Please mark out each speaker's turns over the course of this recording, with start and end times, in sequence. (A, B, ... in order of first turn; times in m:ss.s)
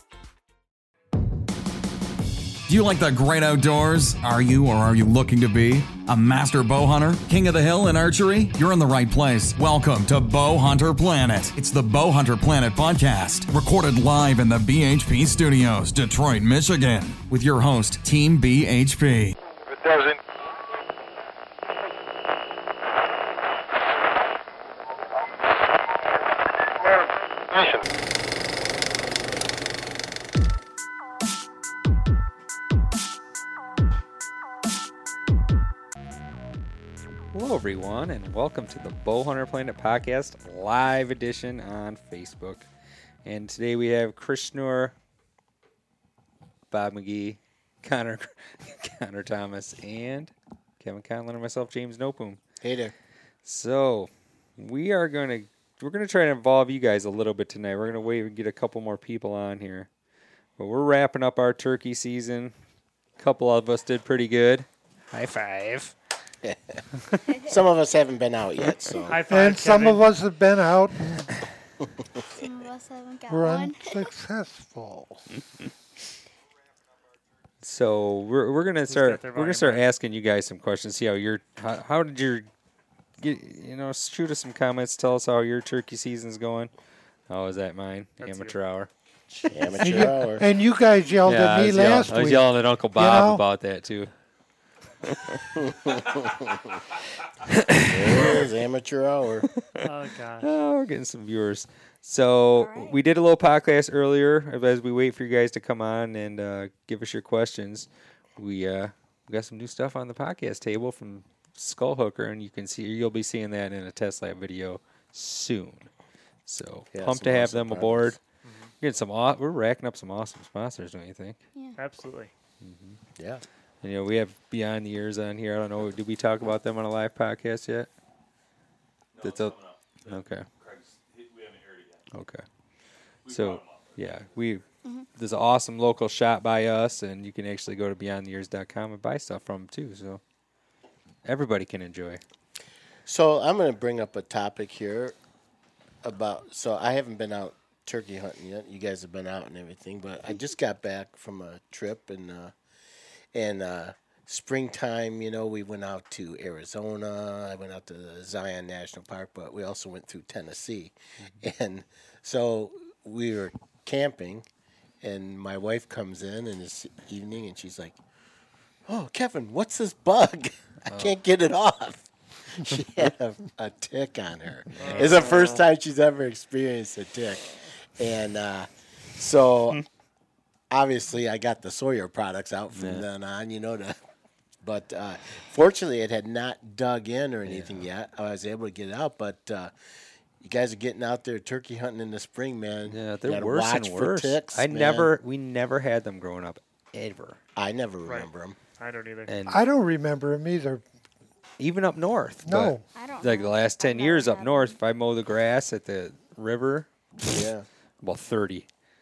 0:02.7-0:19.3 A
0:37.3-0:42.7 B
0:43.2-0:44.9 B
0:46.7-0:52.4 B
0:52.6-0:52.9 C
0:53.4-0:59.9 B
1:00.6-1:02.5 B
1:03.2-1:05.9 B
1:06.4-1:06.8 C
1:07.4-1:09.2 C
1:09.1-1:10.1 D
1:09.3-1:11.3 E
1:12.3-1:14.1 F
1:13.3-1:15.2 E
1:17.6-1:22.5 B
1:18.9-1:19.9 D
1:23.2-1:26.7 B
1:27.3-1:28.9 B
1:28.2-1:28.6 D
1:29.3-1:30.1 D
1:29.5-1:30.0 B
1:29.5-1:30.4 C
1:29.8-1:33.4 E
1:31.2-1:34.1 B
1:35.0-1:36.1 B
1:35.6-1:36.7 C
1:37.4-1:38.5 B
1:37.8-1:39.5 C
1:39.8-1:40.5 D
1:40.4-1:55.9 B
1:42.5-1:43.0 F
1:56.4-1:58.2 B
1:56.9-1:58.2 C
1:58.4-1:58.7 D
1:58.8-2:01.4 B
2:01.8-2:02.3 D
2:02.6-2:03.0 B
2:03.2-2:03.4 C
2:03.8-2:07.9 B
2:09.2-2:10.5 B
2:12.1-2:12.4 B
2:13.2-2:14.6 B
2:15.2-2:20.2 B
2:21.2-2:22.2 B
2:23.0-2:25.2 C
2:26.0-2:32.5 C
2:33.3-2:44.4 C
2:45.0-2:48.0 C
2:48.9-2:59.8 C
2:54.8-2:55.7 D
2:54.8-2:55.0 B
3:00.7-3:04.0 C
3:02.7-3:03.0 B
3:04.6-3:09.7 C
3:07.4-3:07.9 B
3:10.4-3:15.1 C
3:12.9-3:17.4 B
3:17.6-3:18.6 C
3:18.0-3:19.3 D
3:19.3-3:19.6 B
3:19.5-3:20.8 E
3:21.6-3:27.5 B
3:22.4-3:22.8 E
3:22.9-3:24.8 F
3:27.3-3:27.6 C
3:28.0-3:28.7 B